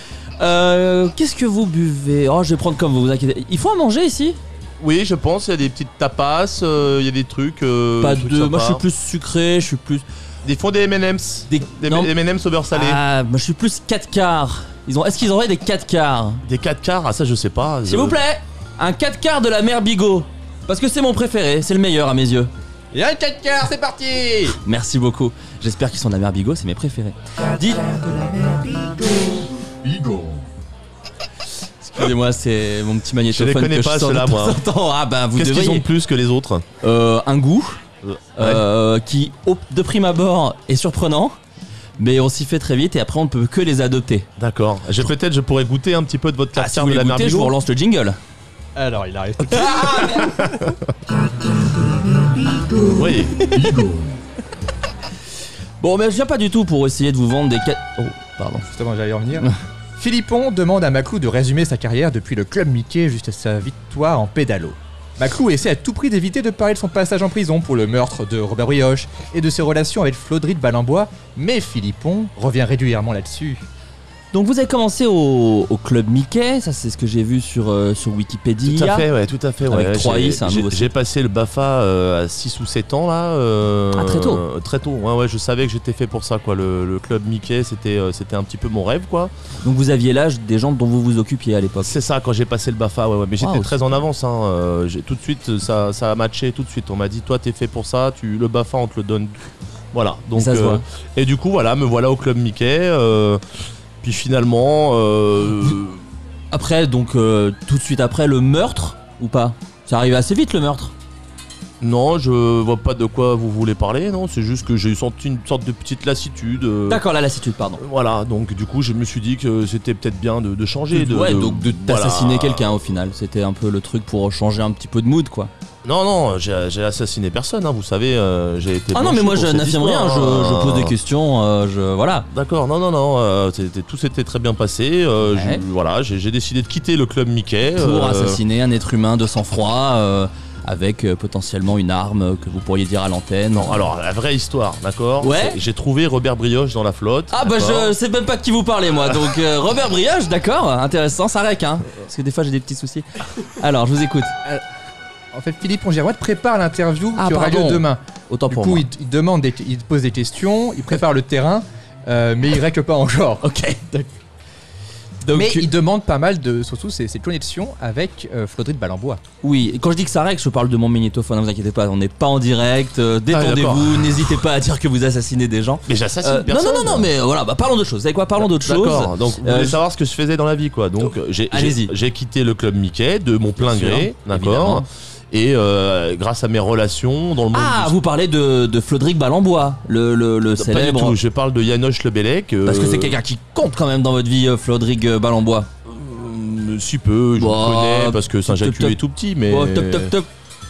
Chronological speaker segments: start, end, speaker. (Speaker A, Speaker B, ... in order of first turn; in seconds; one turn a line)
Speaker A: 0.4-4.4
Speaker B: 4.8-8.8
Speaker A: 8.0-10.0
Speaker B: 10.4-13.0
Speaker A: 11.5-12.1
Speaker A: 12.7-16.4
Speaker B: 16.4-18.2
Speaker A: 17.9-22.5
Speaker C: 22.9-24.6
Speaker A: 24.6-28.4
Speaker A: 31.8-35.9
Speaker B: 33.3-34.6
Speaker B: 35.4-36.7
Speaker A: 36.8-37.8
Speaker B: 38.1-38.6
Speaker A: 38.4-41.4
Speaker A: 42.0-44.3
Speaker B: 44.4-47.5
Speaker A: 46.6-48.2
Speaker C: 48.8-50.3
Speaker A: 49.5-50.3
Speaker B: 52.9-53.4
Speaker A: 55.8-58.7
Speaker C: 58.7-73.6
Speaker A: 74.3-79.1
Speaker B: 78.7-89.3
Speaker A: 79.7-80.9
Speaker A: 83.9-84.4
Speaker A: 89.6-92.0
Speaker B: 91.8-99.4
Speaker A: 93.4-93.7
Speaker B: 99.9-103.4
Speaker A: 100.3-100.8
Speaker B: 104.0-106.0
Speaker A: 106.5-110.9
Speaker B: 111.8-117.0
Speaker A: 116.9-117.8
Speaker B: 117.8-122.6
Speaker A: 120.9-125.5
Speaker B: 125.8-130.9
Speaker A: 128.9-132.3
Speaker B: 132.3-138.4
Speaker A: 135.3-135.6
Speaker A: 137.8-143.8
Speaker B: 143.6-147.9
Speaker A: 145.2-145.6
Speaker A: 147.3-154.3
Speaker C: 155.3-163.5
Speaker A: 157.2-158.9
Speaker A: 163.4-164.1
Speaker A: 165.2-165.7
Speaker C: 165.3-169.2
Speaker A: 169.4-179.8
Speaker B: 173.3-174.3
Speaker B: 175.9-177.1
Speaker B: 178.4-187.9
Speaker A: 181.5-181.9
Speaker A: 183.6-184.9
Speaker A: 187.5-191.2
Speaker B: 190.6-193.2
Speaker A: 192.7-195.7
Speaker B: 195.9-200.1
Speaker A: 197.4-200.3